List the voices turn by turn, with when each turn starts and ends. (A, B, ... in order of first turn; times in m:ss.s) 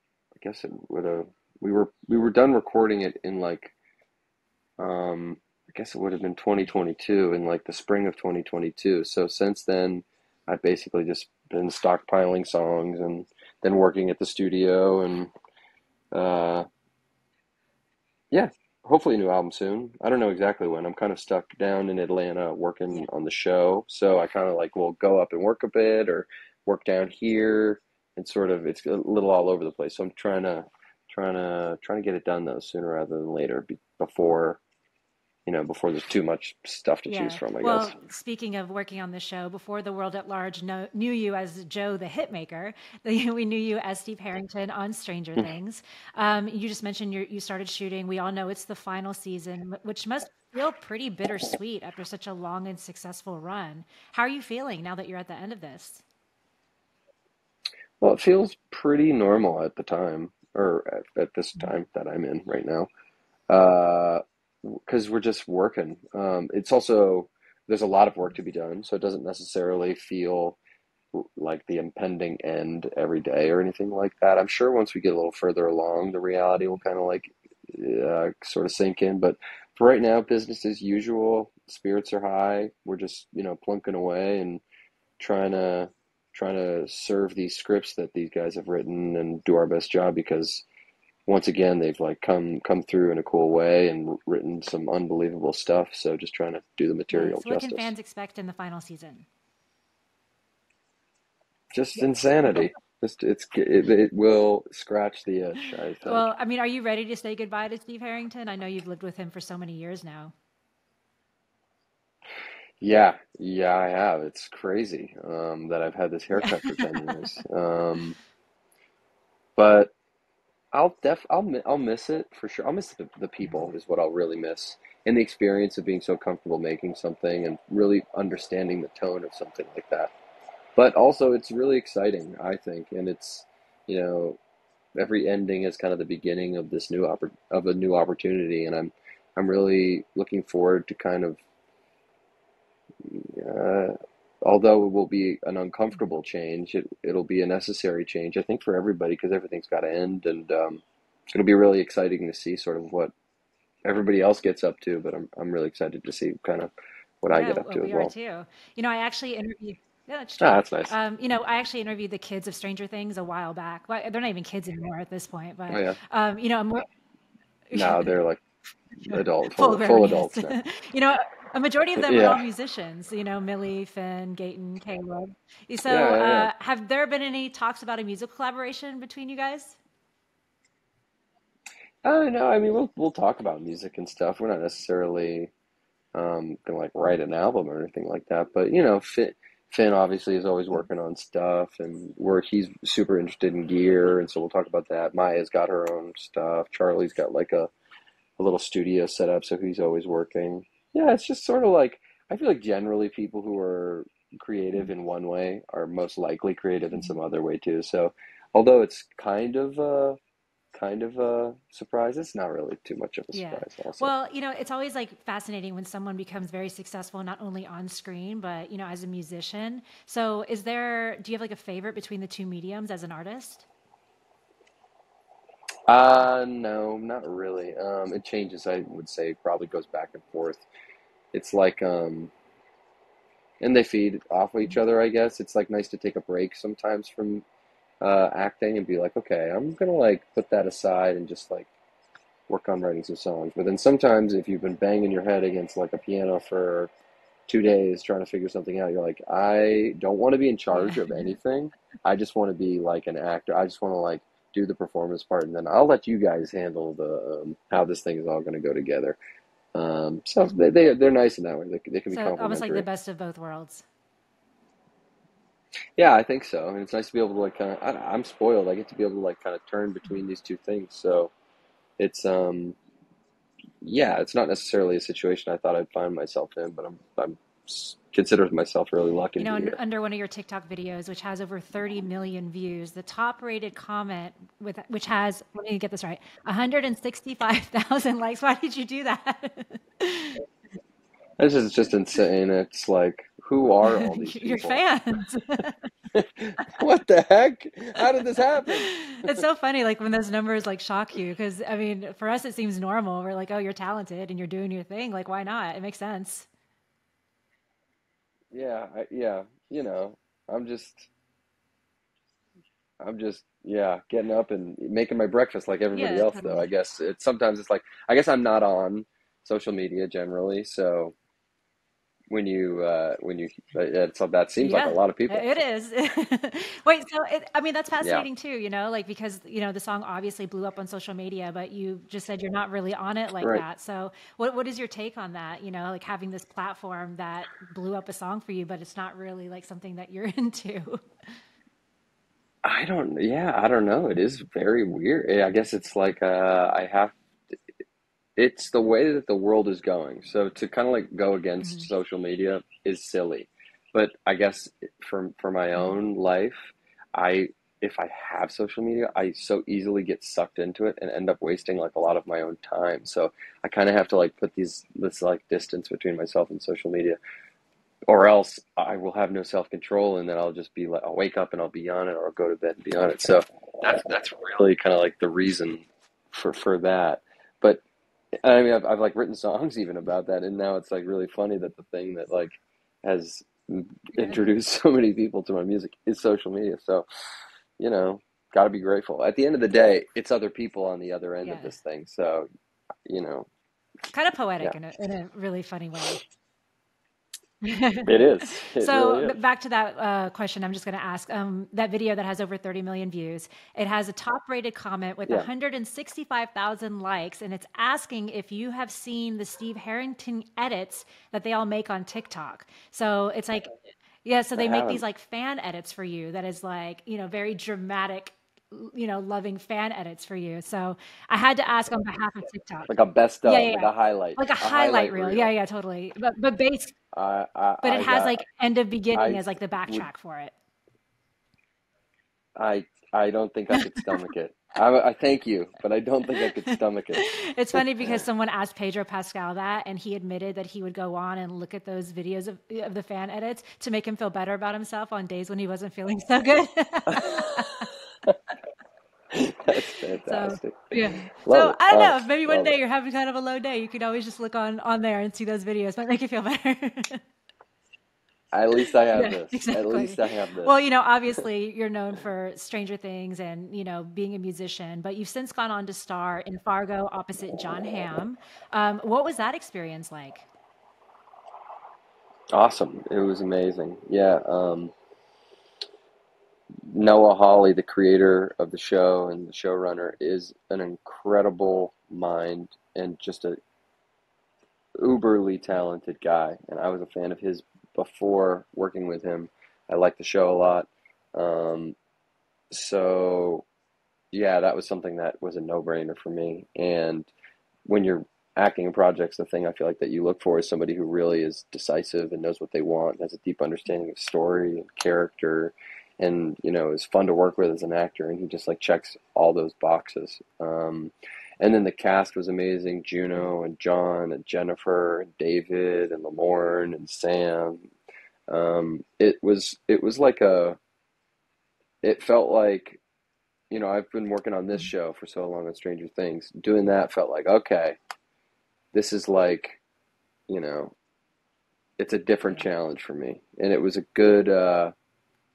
0:00.4-0:03.7 A
0:04.8-0:15.3 A
0:16.1-0:16.6 A
0:18.3-0:34.6 A
0:35.4-0:37.9 A
0:37.1-0:56.0 B
0:58.0-1:02.9 A
1:03.5-1:10.6 A
1:11.1-1:24.6 A
1:25.2-1:30.6 A
1:31.3-1:37.9 A
1:37.1-1:39.2 B
1:41.7-1:46.3 A
1:46.0-1:50.3 B
1:52.8-1:58.2 A
1:56.4-1:57.1 B
1:59.6-1:59.9 A
2:00.7-2:10.1 A
2:10.8-2:14.4 A
2:15.0-2:21.4 A
2:23.0-2:33.1 A
2:33.8-2:38.1 A
2:37.3-2:46.8 B
2:40.4-2:40.9 A
2:45.7-2:46.0 A
2:47.7-2:48.1 B
2:47.7-2:48.4 A
2:49.0-2:50.5 A
2:49.1-2:59.8 B
2:52.0-2:52.4 A
2:55.9-2:56.5 A
3:02.0-3:05.5 A
3:06.1-3:17.7 A
3:18.4-3:30.2 A
3:30.7-3:34.1 A
3:33.3-3:43.6 B
3:45.9-3:50.6 A
3:51.3-3:52.3 A
3:53.6-3:57.4 A
3:58.0-4:01.7 A
4:02.5-4:06.9 A
4:07.5-4:19.2 A
4:10.7-4:11.2 B
4:19.7-4:22.8 A
4:22.1-4:23.8 B
4:26.0-4:31.3 A
4:32.0-4:32.8 A
4:33.8-4:39.8 A
4:39.4-4:50.4 B
4:51.4-4:54.8 A
4:53.9-4:55.9 B
4:56.1-4:59.4 A
4:58.8-5:06.5 B
5:08.5-5:11.1 A
5:13.0-5:21.1 A
5:15.9-5:16.7 B
5:22.3-5:25.5 A
5:24.6-5:41.0 B
5:28.0-5:28.3 A
5:42.6-5:47.2 A
5:48.4-6:07.2 A
5:51.6-5:51.9 B
6:08.1-6:17.8 A
6:18.4-6:27.0 A
6:27.8-6:32.5 A
6:31.4-6:31.7 B
6:33.0-6:33.5 A
6:34.1-6:36.2 B
6:37.6-6:38.1 B
6:38.0-6:39.4 A
6:38.8-6:53.7 B
6:54.2-7:02.9 B
6:54.6-6:55.0 A
7:02.9-7:05.5 A
7:03.4-7:06.9 B
7:07.1-7:08.4 A
7:07.8-7:10.5 B
7:09.1-7:10.1 A
7:12.6-7:17.2 A
7:17.2-7:27.9 B
7:17.8-7:18.2 A
7:27.1-7:28.3 A
7:29.3-7:32.7 A
7:30.2-7:37.2 B
7:38.5-7:40.7 A
7:39.1-7:50.5 B
7:52.5-7:54.9 A
7:56.9-8:03.6 A
8:05.0-8:12.0 A
8:12.7-8:13.6 A
8:14.3-8:17.3 A
8:17.8-8:37.9 A
8:38.5-8:40.8 A
8:42.0-8:43.0 A
8:43.7-8:48.0 A
8:48.9-8:49.8 A
8:50.5-8:50.9 A
8:52.0-8:54.9 A